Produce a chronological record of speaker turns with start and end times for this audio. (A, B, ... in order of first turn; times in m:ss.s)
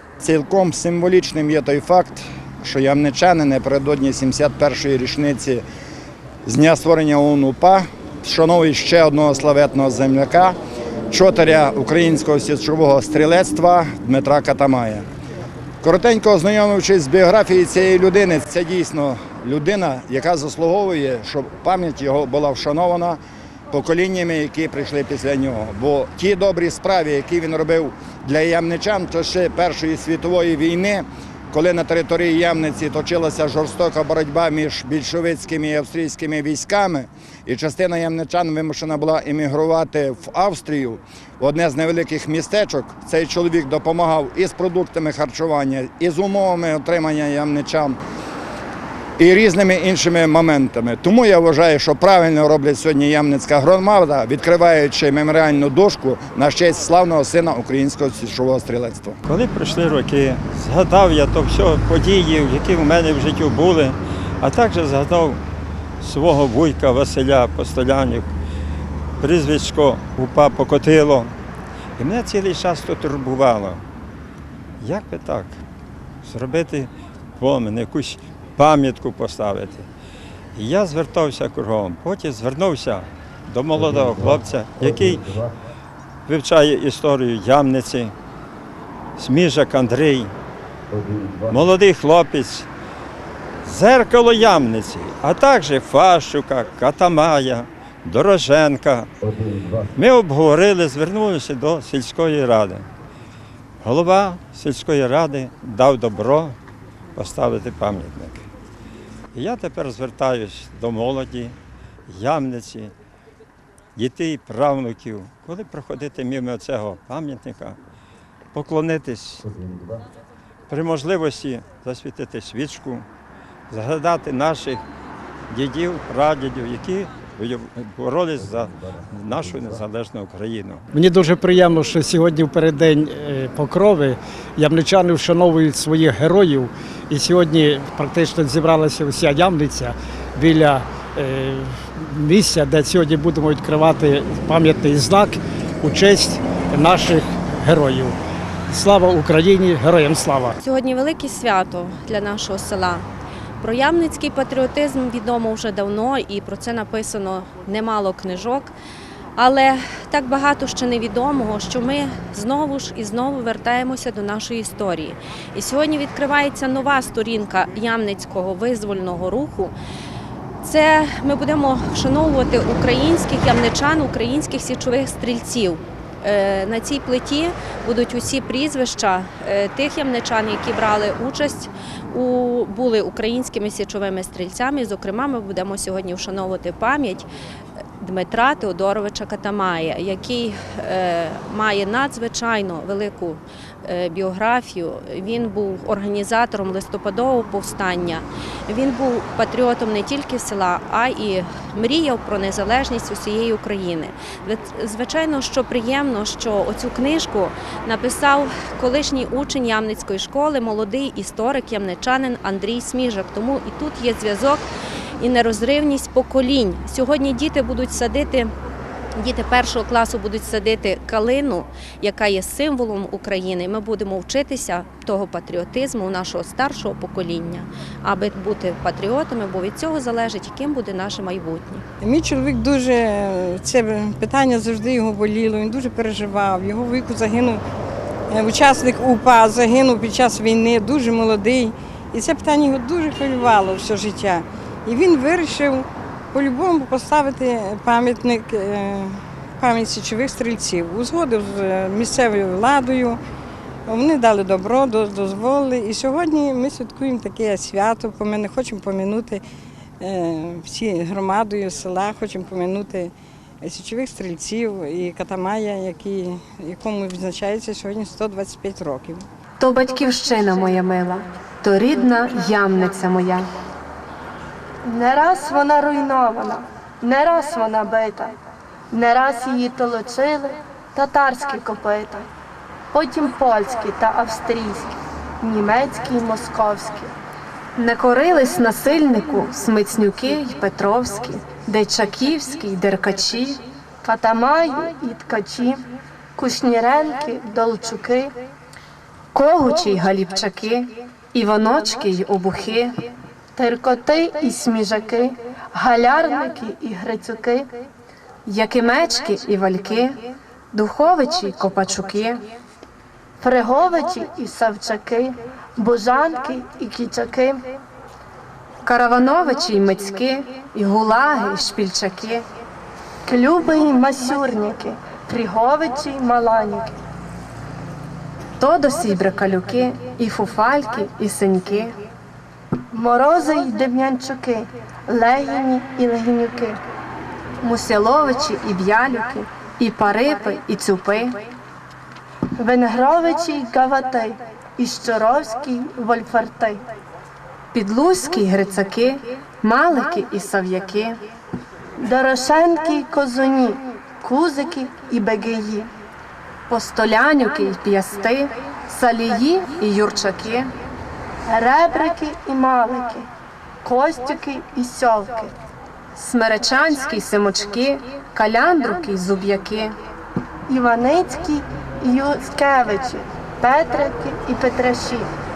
0:00.2-0:05.6 A
0:06.4-0:10.6 A
0:11.1-0:15.1 A
0:15.8-0:23.2 A
0:23.7-0:48.0 A
0:49.2-0:59.2 A
0:59.2-1:05.4 B
1:06.0-1:08.3 B
1:09.2-1:11.3 B
1:12.0-1:13.8 B
1:14.8-1:15.6 B
1:16.2-1:19.9 B
1:20.6-1:25.3 B
1:26.3-1:28.1 B
1:29.2-1:30.3 B
1:31.5-1:32.7 B
1:33.6-1:39.1 B
1:39.9-1:42.9 B
1:43.8-1:46.6 B
1:47.1-1:48.4 B
1:49.3-1:51.5 B
1:52.1-1:52.9 B
1:54.0-1:57.8 B
1:58.5-1:59.4 B
2:00.7-2:03.0 B
2:03.7-2:04.8 B
2:05.5-2:10.9 B
2:10.9-2:28.2 C
2:28.7-2:30.6 C
2:30.6-2:33.0 D
2:33.6-2:38.7 D
2:39.4-2:49.7 D
2:50.6-3:07.3 D
3:08.0-3:34.6 D
3:35.2-3:38.5 D
3:39.2-3:51.8 D
3:52.0-3:57.6 E
3:58.3-4:13.2 E
4:13.9-4:19.4 E
4:20.0-4:29.2 E
4:29.6-4:33.5 F
4:34.8-4:38.4 G
4:38.9-4:42.2 G
4:42.9-4:47.1 G
4:47.8-4:53.6 F
4:54.0-4:55.8 G
4:56.4-4:58.3 G
4:59.3-5:03.0 F
5:03.6-5:07.7 G
5:08.5-5:10.2 F
5:10.7-5:12.4 F
5:13.4-5:17.7 G
5:18.8-5:22.4 F
5:23.2-5:26.9 G
5:28.6-5:31.9 F
5:32.9-5:36.8 G
5:37.6-5:41.4 F
5:42.6-5:46.8 G
5:47.7-5:51.2 F
5:52.0-5:55.9 G
5:56.7-6:00.7 F
6:01.5-6:03.3 G
6:03.8-6:05.5 G
6:06.2-6:09.9 F
6:10.7-6:15.3 G